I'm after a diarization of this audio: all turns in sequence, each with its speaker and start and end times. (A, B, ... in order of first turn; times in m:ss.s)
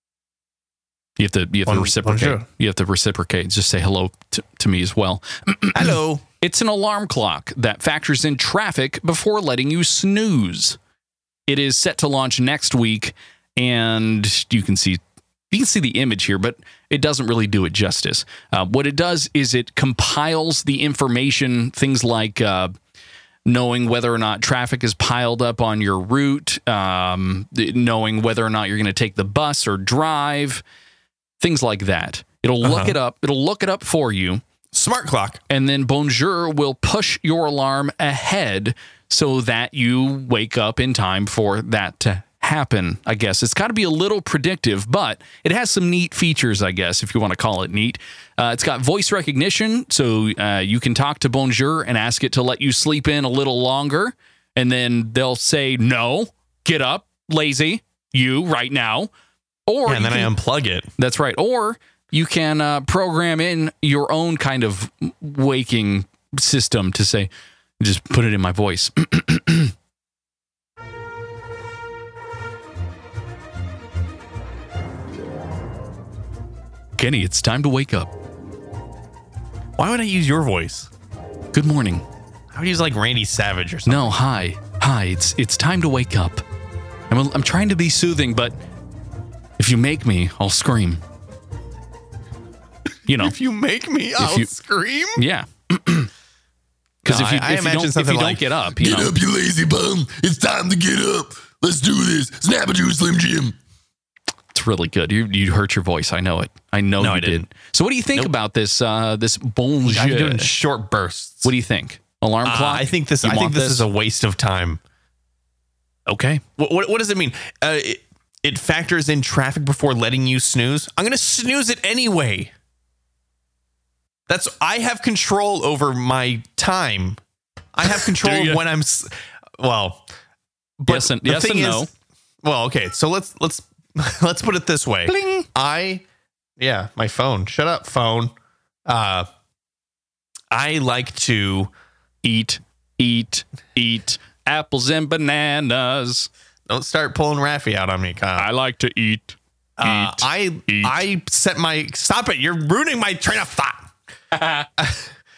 0:01.2-0:10.8 A
0:01.7-0:02.5 B
0:05.7-0:06.2 B
0:11.5-0:22.7 A
0:23.5-0:30.6 A
0:31.4-0:34.4 A
0:32.6-0:33.0 B
0:34.7-0:35.4 B
0:35.5-0:59.1 A
0:59.7-1:00.3 A
0:59.9-1:00.9 B
1:01.0-1:09.7 A
1:17.0-1:18.1 A
1:19.8-1:20.9 B
1:21.5-1:22.0 A
1:22.5-1:24.2 B
1:23.9-1:26.4 A
1:27.1-1:28.6 A
1:29.6-1:31.0 A
1:33.1-1:33.4 A
1:33.1-1:35.2 B
1:34.2-1:34.5 A
1:35.2-1:36.1 A
1:37.0-1:39.1 A
1:37.1-1:38.6 B
1:38.8-1:43.6 C
1:44.5-1:50.5 A
1:47.0-1:47.5 B
1:49.9-1:51.5 B
1:51.4-1:53.9 A
1:52.4-1:54.8 B
1:56.1-1:56.4 A
1:56.6-2:02.5 B
2:04.3-2:07.2 B
2:07.7-2:10.1 B
2:08.0-2:08.6 A
2:10.8-2:11.9 B
2:10.9-2:11.9 A
2:12.4-2:16.0 B
2:15.1-2:15.5 A
2:16.6-2:18.3 B
2:18.9-2:19.3 B
2:20.5-2:21.7 B
2:22.2-2:26.3 A
2:26.7-2:28.5 B
2:28.4-2:31.0 A
2:29.8-2:33.9 B
2:34.3-2:34.7 A
2:34.8-2:35.1 B